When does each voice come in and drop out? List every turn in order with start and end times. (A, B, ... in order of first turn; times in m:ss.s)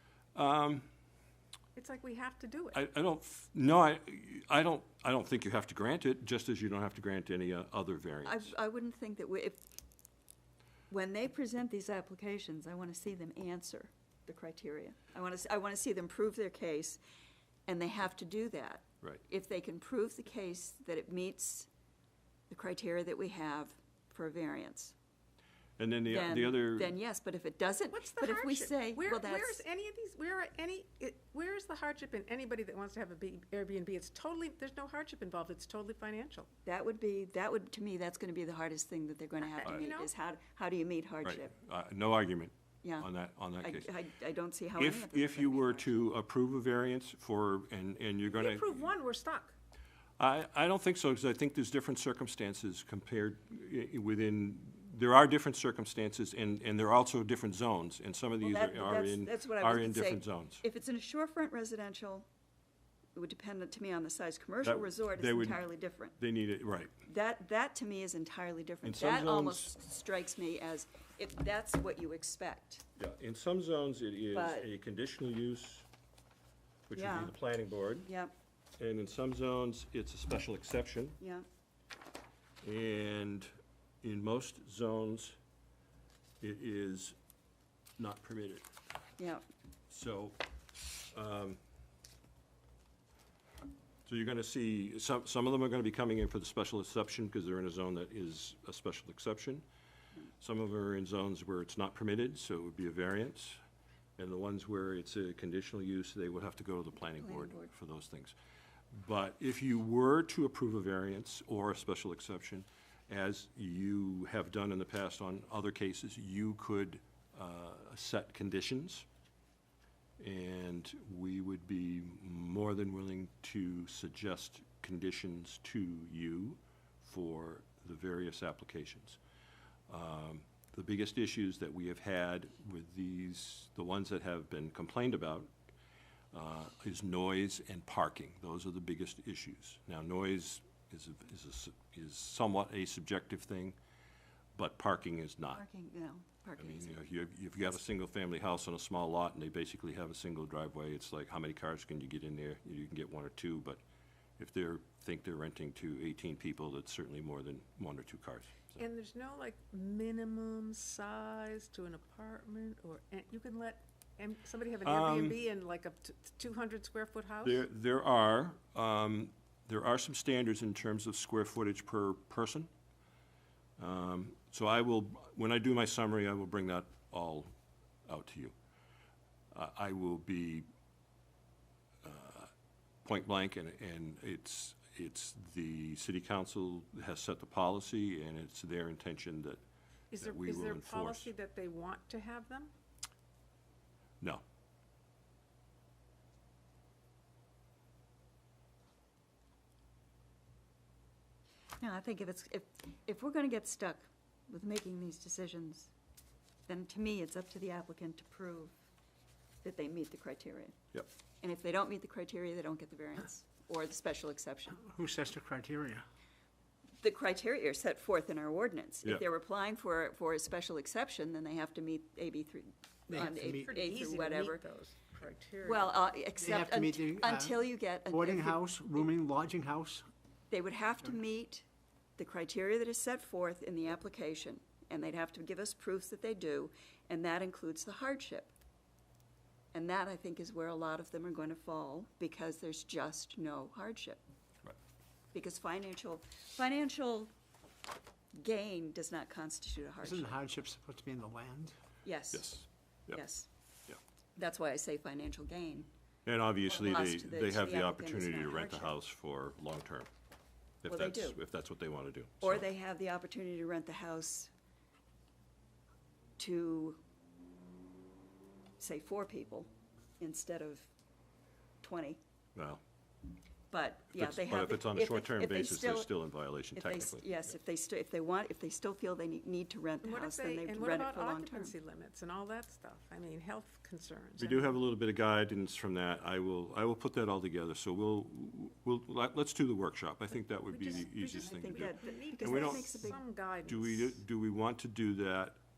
0:00.4-0:00.9 A
0:01.8-0:02.8 B
0:02.7-0:08.6 A
0:08.2-0:09.6 C
0:10.9-0:17.0 C
0:17.7-0:21.7 C
0:22.5-0:24.9 C
0:25.8-0:27.0 A
0:26.1-0:29.6 C
0:27.9-0:36.5 B
0:36.7-0:41.5 C
0:39.5-0:40.1 B
0:41.2-0:43.9 A
0:42.8-0:43.1 C
0:43.6-0:46.1 C
0:44.8-0:48.9 A
0:48.3-0:49.6 B
0:50.2-1:00.6 A
0:58.4-1:02.3 C
1:03.2-1:06.2 C
1:04.6-1:05.6 A
1:06.2-1:07.0 A
1:07.1-1:12.8 C
1:08.8-1:09.8 A
1:13.0-1:15.9 A
1:14.3-1:14.7 C
1:16.9-1:18.1 A
1:17.0-1:17.3 C
1:18.1-1:18.4 C
1:18.8-1:21.2 A
1:21.2-1:21.5 C
1:22.6-1:23.5 A
1:24.0-1:25.4 A
1:26.4-1:27.2 A
1:28.0-1:28.7 A
1:29.9-1:30.4 A
1:31.1-1:31.6 A
1:34.1-1:39.6 A
1:40.4-1:43.6 A
1:44.2-1:48.4 A
1:47.2-1:47.7 C
1:48.9-1:59.1 A
2:00.2-2:09.2 A
2:09.9-2:15.5 A
2:16.3-2:23.8 A
2:24.6-2:25.6 A
2:25.5-2:27.0 C
2:26.6-2:33.8 A
2:34.4-2:38.8 A
2:38.8-2:47.6 B
2:44.8-2:45.4 A
2:47.4-2:52.7 A
2:53.8-2:57.5 A
2:58.1-2:58.5 A
2:59.5-3:00.7 A
3:02.0-3:02.5 A
3:03.0-3:09.6 A
3:10.1-3:12.7 B
3:10.2-3:11.3 A
3:21.8-3:25.9 C
3:26.7-3:28.8 C
3:29.6-3:30.8 C
3:31.4-3:34.8 C
3:34.8-3:36.0 D
3:37.0-3:44.6 C
3:43.1-3:43.7 D
3:43.5-3:46.0 B
3:45.6-3:48.6 C
3:46.4-3:50.1 D
3:50.5-3:51.6 C
3:52.2-3:58.5 C
3:59.7-4:04.2 C
4:05.3-4:07.3 C
4:08.4-4:10.4 C
4:10.0-4:11.8 D
4:12.0-4:12.5 C
4:12.3-4:13.2 A
4:13.1-4:13.5 C
4:14.4-4:15.9 C
4:16.2-4:20.1 A
4:16.6-4:18.9 C
4:20.8-4:22.7 A
4:20.9-4:21.4 C
4:22.4-4:24.5 C
4:26.4-4:27.0 C
4:28.8-4:30.9 C
4:31.8-4:32.2 C
4:32.6-4:32.8 A
4:33.7-4:36.1 C
4:34.1-4:37.3 A
4:36.8-4:41.7 C
4:40.0-4:44.8 B
4:44.4-4:55.6 A
4:50.7-4:54.2 B
4:51.2-4:53.2 C